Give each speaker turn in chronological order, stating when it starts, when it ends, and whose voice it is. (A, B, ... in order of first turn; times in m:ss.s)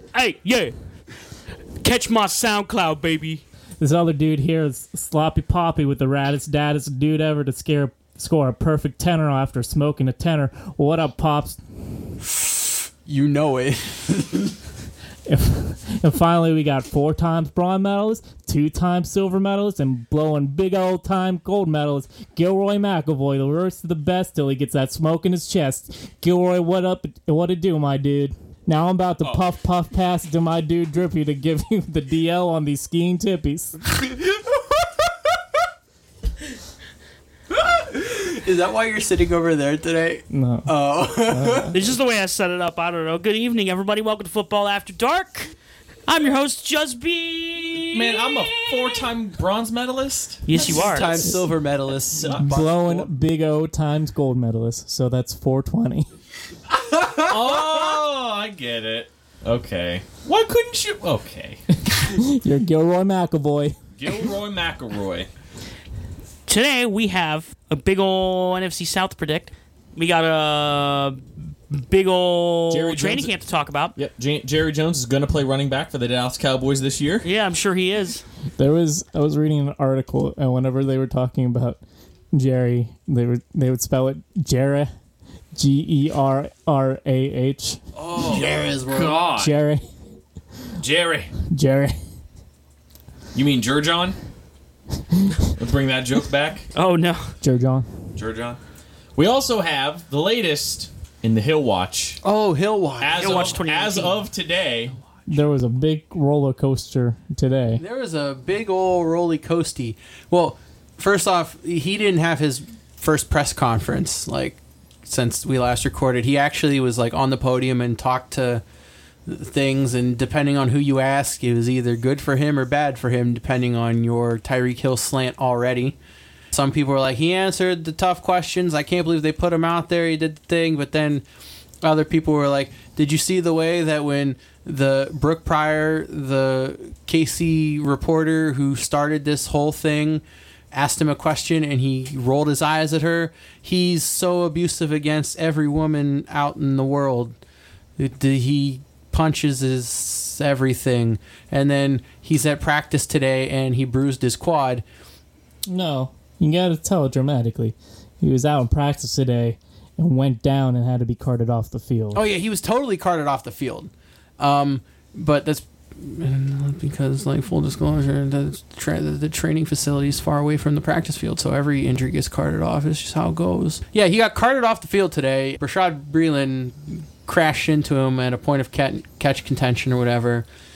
0:00.1-0:00.7 A
0:01.8-0:03.4 A
0:03.8-0:11.6 B
0:13.0-0:14.6 C
0:15.3-0:33.8 B
0:37.5-0:41.7 C
0:40.3-0:40.7 B
0:41.3-0:41.7 B
0:41.7-0:45.5 A
0:46.0-0:48.7 A
0:47.9-0:50.5 D
0:50.4-0:51.3 A
0:50.5-0:53.1 C
0:52.2-0:52.5 D
0:52.3-0:56.1 B
0:56.7-0:57.3 C
0:57.2-1:01.6 D
1:02.0-1:03.8 B
1:04.0-1:05.3 D
1:06.4-1:13.9 A
1:12.7-1:13.4 D
1:13.9-1:17.3 D
1:17.2-1:18.2 A
1:18.6-1:21.8 B
1:22.3-1:24.9 B
1:25.5-1:27.8 B
1:27.9-1:29.5 D
1:28.2-1:29.2 C
1:29.4-1:29.8 B
1:30.8-1:31.3 D
1:31.5-1:31.9 B
1:33.3-1:34.2 D
1:35.5-1:36.6 D
1:36.7-1:37.3 A
1:37.4-1:37.9 B
1:38.2-1:38.6 D
1:39.1-1:42.2 D
1:42.2-1:43.6 C
1:43.0-1:44.9 D
1:43.1-1:44.2 A
1:45.3-1:47.8 B
1:47.8-1:58.6 C
1:59.2-2:06.0 C
2:06.5-2:11.2 C
2:11.8-2:27.3 C
2:28.0-2:34.8 C
2:35.7-2:42.2 B
2:42.1-3:00.4 C